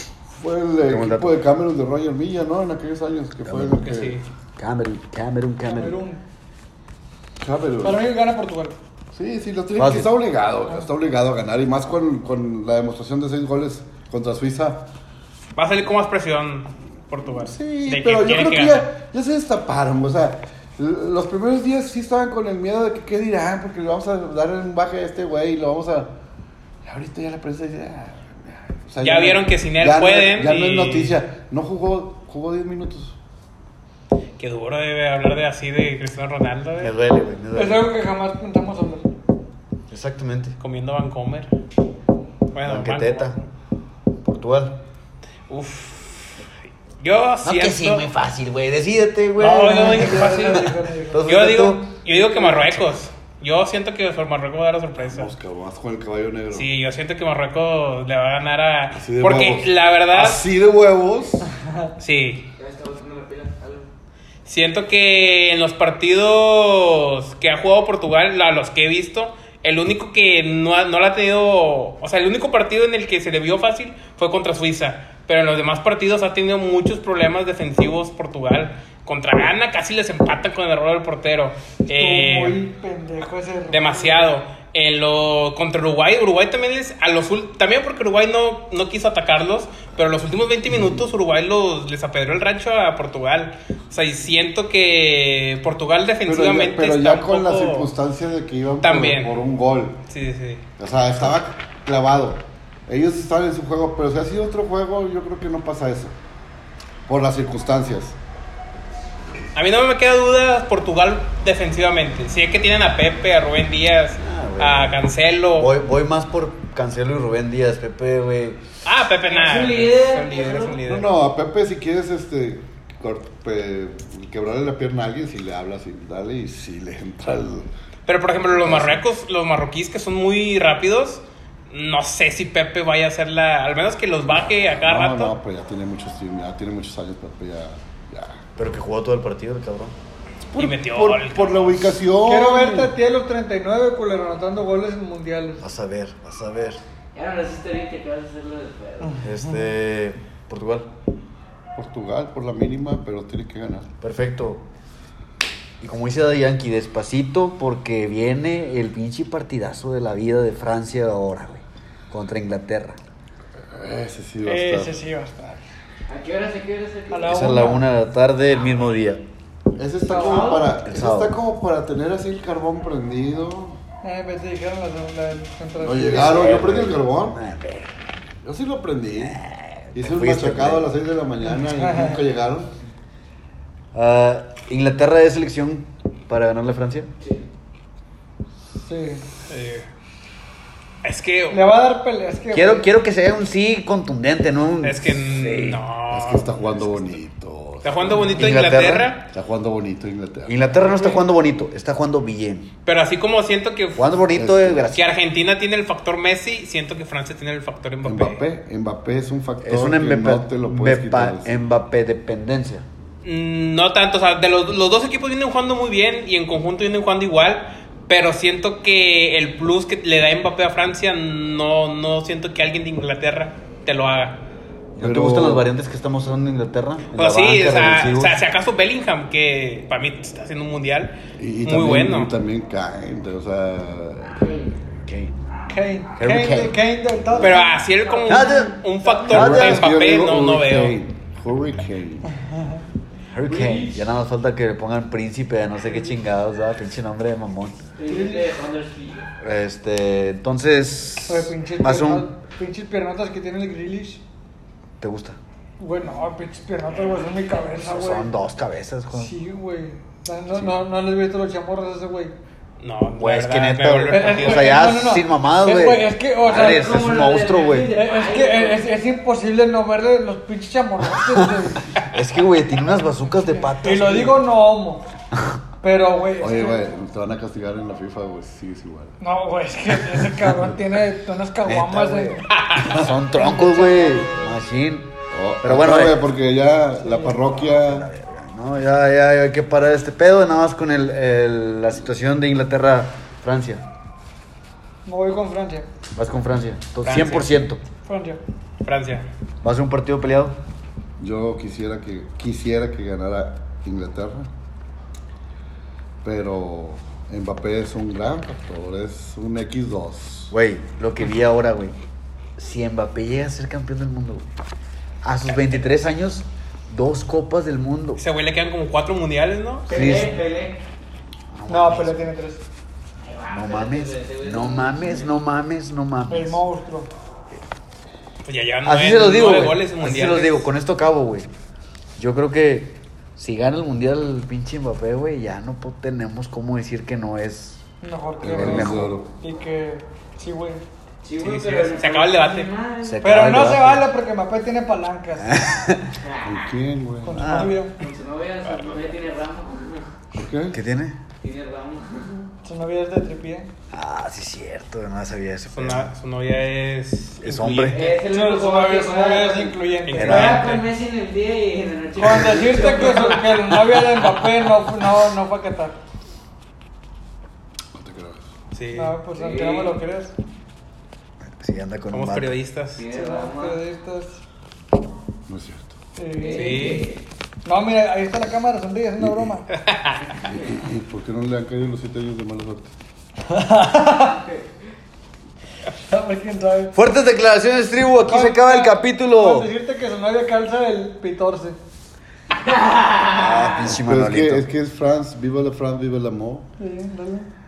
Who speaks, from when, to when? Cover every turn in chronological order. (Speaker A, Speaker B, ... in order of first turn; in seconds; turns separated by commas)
Speaker A: 0.4-4.2, Speaker B: 0.9-1.4, Speaker B: 3.5-3.9, Speaker C: 3.8-4.3, Speaker B: 4.6-6.0, Speaker D: 5.7-6.2, Speaker A: 7.4-8.1, Speaker D: 7.8-8.8, Speaker A: 9.1-14.9, Speaker B: 9.8-10.1, Speaker C: 15.6-18.9, Speaker A: 17.4-26.1, Speaker A: 26.8-33.2, Speaker C: 29.0-31.2, Speaker C: 34.4-36.9, Speaker B: 36.8-37.9, Speaker D: 37.5-39.1, Speaker B: 39.9-40.6, Speaker C: 40.6-41.5, Speaker C: 42.5-43.5, Speaker B: 42.7-43.4, Speaker B: 44.2-44.8, Speaker C: 45.5-46.5, Speaker C: 47.0-48.0, Speaker B: 47.4-51.9, Speaker D: 49.4-51.4, Speaker C: 49.4-55.3, Speaker D: 52.3-52.7, Speaker A: 55.0-56.7, Speaker C: 56.5-60.5, Speaker A: 58.9-61.5, Speaker D: 61.6-61.9, Speaker C: 62.0-62.5, Speaker E: 62.6-63.9, Speaker C: 64.5-82.6, Speaker D: 81.8-84.3, Speaker C: 83.7-97.9, Speaker A: 90.7-91.0, Speaker A: 96.2-100.0, Speaker C: 98.8-99.3, Speaker C: 100.1-100.6, Speaker A: 100.8-106.2, Speaker A: 107.1-108.2, Speaker C: 109.5-115.7, Speaker B: 114.2-118.6, Speaker C: 118.8-121.1, Speaker E: 119.3-120.8, Speaker A: 120.8-127.7, Speaker C: 128.1-135.3, Speaker A: 134.8-138.4, Speaker B: 138.6-139.9, Speaker A: 140.5-142.9, Speaker C: 140.6-141.9, Speaker D: 142.2-145.6, Speaker B: 145.6-146.8, Speaker E: 147.1-149.3, Speaker B: 149.2-150.9, Speaker A: 151.8-153.9, Speaker B: 154.0-154.6, Speaker B: 155.8-163.0, Speaker A: 163.7-165.0, Speaker D: 164.4-165.6, Speaker E: 166.1-167.3, Speaker D: 167.1-167.9, Speaker B: 167.3-169.2, Speaker A: 169.8-173.8, Speaker E: 170.1-170.8, Speaker D: 170.1-170.5, Speaker B: 170.8-171.4, Speaker D: 174.0-176.6, Speaker A: 175.8-177.4, Speaker B: 176.1-177.9, Speaker A: 178.4-179.4, Speaker B: 179.2-180.9, Speaker A: 180.0-182.7, Speaker D: 181.5-182.2, Speaker B: 183.9-187.1, Speaker D: 188.8-189.2, Speaker C: 189.5-189.9, Speaker C: 191.0-191.6, Speaker D: 191.5-192.9, Speaker B: 192.5-195.8, Speaker C: 194.8-196.5, Speaker A: 196.1-198.7, Speaker C: 197.8-199.3, Speaker B: 198.3-199.2, Speaker A: 199.3-200.6, Speaker B: 200.5-202.7, Speaker D: 200.8-201.2, Speaker C: 202.9-204.2, Speaker B: 204.0-205.1, Speaker A: 204.3-204.9, Speaker C: 204.9-208.4, Speaker A: 208.0-211.6, Speaker B: 209.6-212.9, Speaker C: 213.2-224.4, Speaker A: 225.0-225.7, Speaker B: 225.0-228.4, Speaker C: 227.2-232.3, Speaker A: 231.4-234.4, Speaker E: 234.4-234.8, Speaker B: 235.1-235.3, Speaker D: 235.7-237.6, Speaker B: 236.2-236.8, Speaker C: 237.4-241.0, Speaker E: 238.1-238.4, Speaker B: 238.3-240.0, Speaker A: 239.3-242.3, Speaker D: 242.4-242.8, Speaker B: 243.3-247.8, Speaker E: 243.4-244.1, Speaker E: 248.0-249.3, Speaker D: 248.1-248.5, Speaker B: 249.4-252.3, Speaker D: 251.3-254.2, Speaker B: 255.0-255.4, Speaker D: 255.8-258.3, Speaker B: 257.8-259.4, Speaker D: 259.1-262.3, Speaker C: 262.8-264.8, Speaker B: 263.2-267.9, Speaker D: 264.1-267.0, Speaker E: 266.4-268.9, Speaker D: 267.9-272.0, Speaker B: 271.1-274.4, Speaker D: 273.6-275.0, Speaker D: 275.8-276.8, Speaker A: 276.4-279.2, Speaker D: 279.2-284.6, Speaker B: 281.6-285.1, Speaker C: 282.5-283.0, Speaker A: 285.3-288.1, Speaker B: 285.6-286.2, Speaker D: 287.0-287.4, Speaker B: 287.5-293.9, Speaker D: 295.1-295.9, Speaker B: 296.2-297.8, Speaker C: 297.0-297.6, Speaker D: 298.0-298.4, Speaker C: 298.8-299.3, Speaker B: 299.6-300.6, Speaker A: 301.2-304.5, Speaker A: 306.2-310.5, Speaker B: 310.5-312.0, Speaker B: 312.6-314.4, Speaker B: 315.2-318.2, Speaker C: 318.2-319.9, Speaker E: 319.9-320.8, Speaker B: 319.9-320.4, Speaker B: 321.5-322.3, Speaker D: 321.7-322.6, Speaker E: 323.2-325.4, Speaker B: 323.5-326.6, Speaker D: 326.3-327.1, Speaker C: 328.4-330.7, Speaker B: 328.9-331.5, Speaker B: 332.2-337.8, Speaker D: 338.0-340.8, Speaker A: 338.4-339.3, Speaker B: 338.5-339.1, Speaker E: 341.2-343.5, Speaker C: 341.4-342.7, Speaker B: 343.0-344.0, Speaker D: 343.2-345.7, Speaker B: 345.4-346.1, Speaker E: 346.2-346.7, Speaker A: 346.4-347.7, Speaker D: 347.2-348.0, Speaker B: 347.4-347.8, Speaker E: 348.0-350.1, Speaker C: 348.7-349.1, Speaker A: 350.3-350.8, Speaker B: 350.7-351.2, Speaker E: 351.4-352.4, Speaker D: 352.6-353.7, Speaker B: 353.9-356.1, Speaker C: 355.7-358.2, Speaker B: 357.4-358.0, Speaker E: 357.9-363.5, Speaker D: 358.2-360.7, Speaker C: 360.1-360.9, Speaker B: 360.2-360.7, Speaker D: 362.2-366.0, Speaker C: 363.4-364.4, Speaker A: 367.9-368.5, Speaker C: 368.7-369.2, Speaker D: 368.9-370.4, Speaker E: 369.3-370.0, Speaker B: 371.6-372.6, Speaker C: 372.1-373.0, Speaker E: 372.9-373.8, Speaker D: 373.1-374.4, Speaker A: 375.5-376.0, Speaker D: 376.2-377.1, Speaker E: 376.3-377.2, Speaker C: 376.5-377.1, Speaker D: 377.6-379.7, Speaker C: 379.7-380.3, Speaker A: 380.5-382.9, Speaker D: 383.5-384.4, Speaker D: 386.1-387.0, Speaker B: 386.9-389.7, Speaker D: 388.2-391.8, Speaker E: 392.5-393.8, Speaker B: 393.3-394.6, Speaker A: 393.9-396.7, Speaker D: 396.8-397.5